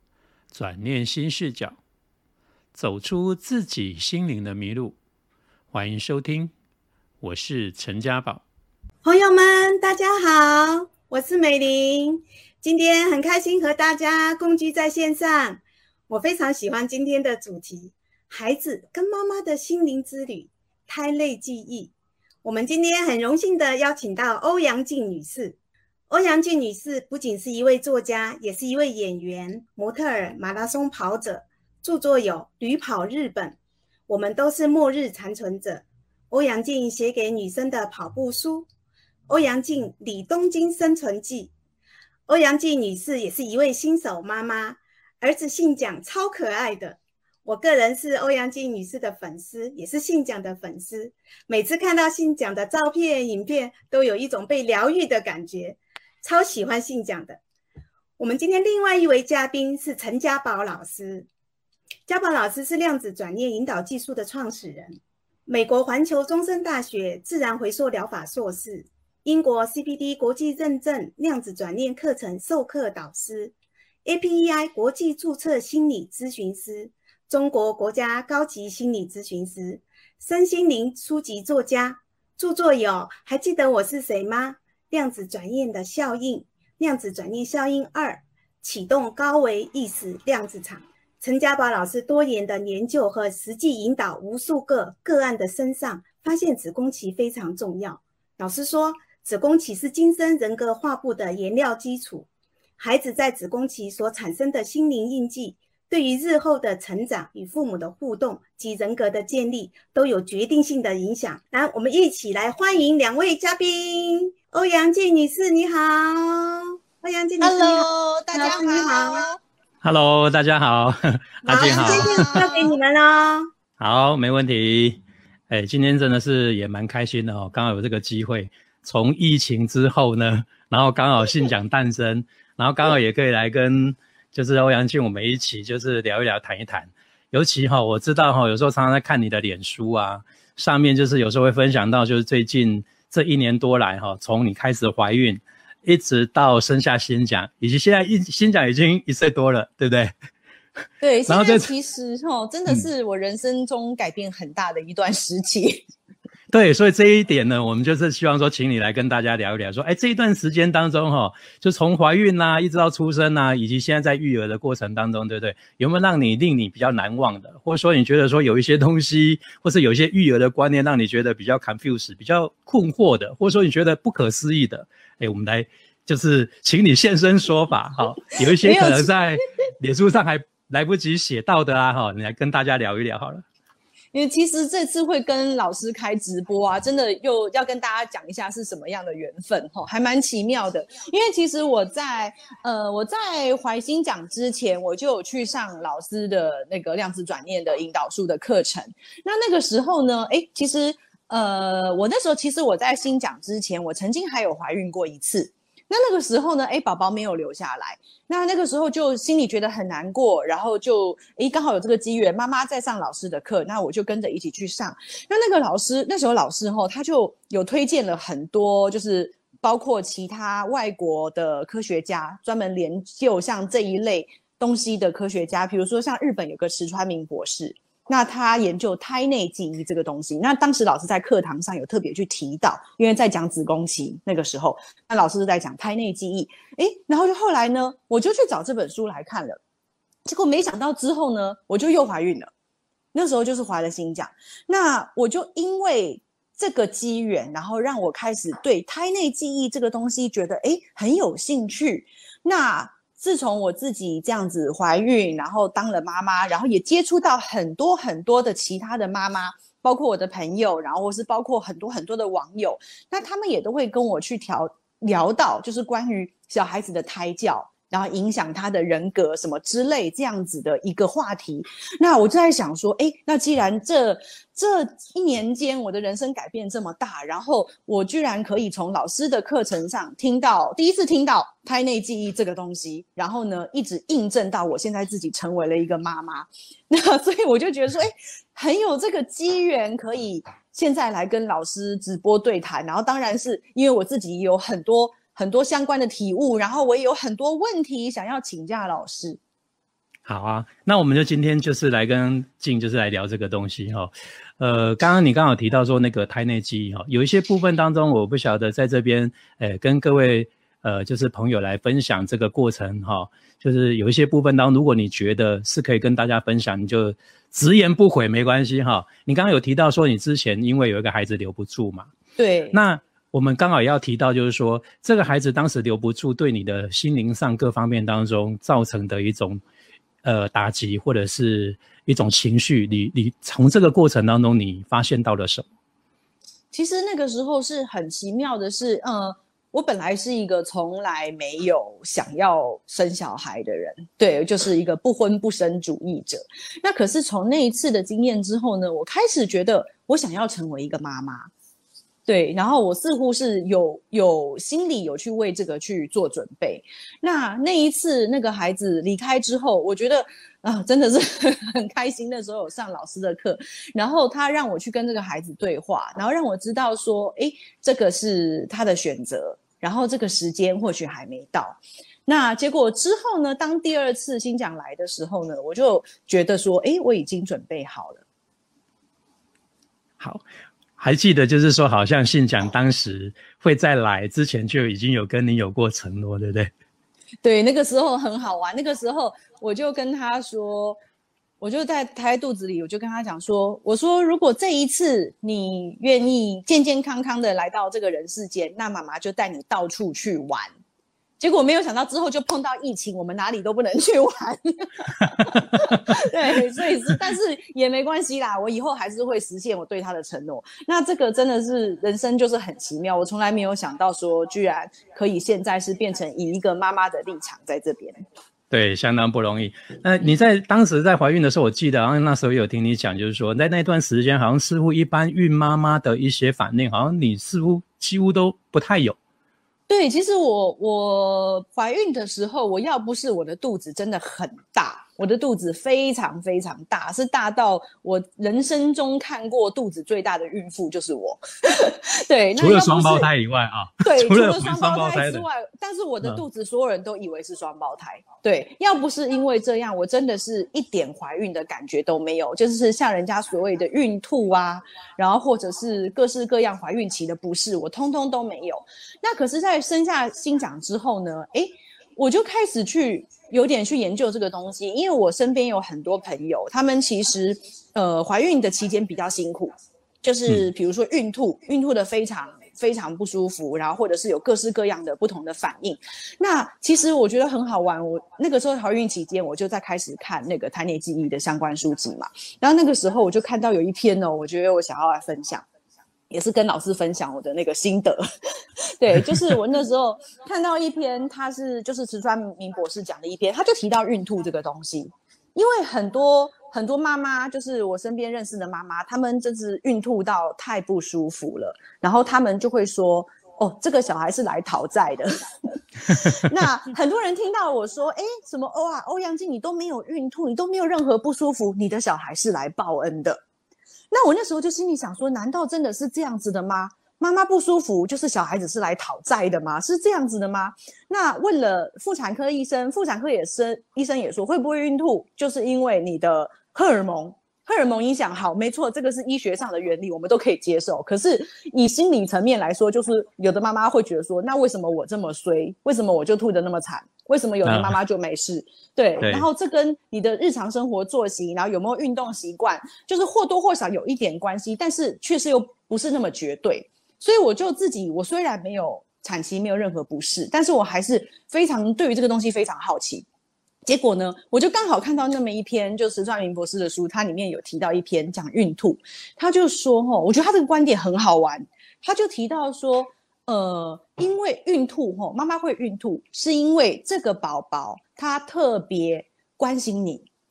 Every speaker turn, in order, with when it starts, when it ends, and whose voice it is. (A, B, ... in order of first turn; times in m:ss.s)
0:00.5-0:01.8 A
0:02.7-0:05.0 A
0:05.7-0:06.5 A
0:07.2-0:08.4 A
0:09.0-0:21.9 B
0:22.4-0:25.6 B
0:26.1-0:33.6 B
0:34.1-0:38.6 B
0:39.3-0:41.5 B
0:42.3-0:57.4 B
0:58.2-1:01.3 B
1:02.1-1:13.5 B
1:14.0-1:42.3 B
1:42.8-1:59.2 B
1:57.4-1:59.4 C
1:59.8-2:02.4 A
2:01.4-2:03.4 B
2:01.7-2:02.8 C
2:03.8-2:30.1 A
2:31.0-2:35.8 C
2:31.3-2:31.7 A
2:36.5-3:03.4 A
2:58.5-2:59.1 C
3:04.1-3:59.6 C
4:00.2-4:02.5 C
4:03.1-4:59.4 C
5:00.2-5:22.1 A
5:22.4-5:22.8 C
5:22.7-5:29.6 A
5:30.2-5:35.6 A
5:36.7-5:51.5 C
5:52.3-6:18.2 C
6:21.0-6:26.7 A
6:27.4-6:31.0 C
6:31.6-6:40.7 C
6:41.4-6:58.2 C
6:58.7-7:09.2 A
7:09.9-7:23.3 C
7:22.6-7:25.4 A
7:24.0-8:05.6 C
8:06.3-8:08.2 C
8:09.0-8:33.4 C
8:34.1-9:13.2 C
8:57.6-8:58.0 A
8:59.2-8:59.5 A
9:13.8-9:30.3 C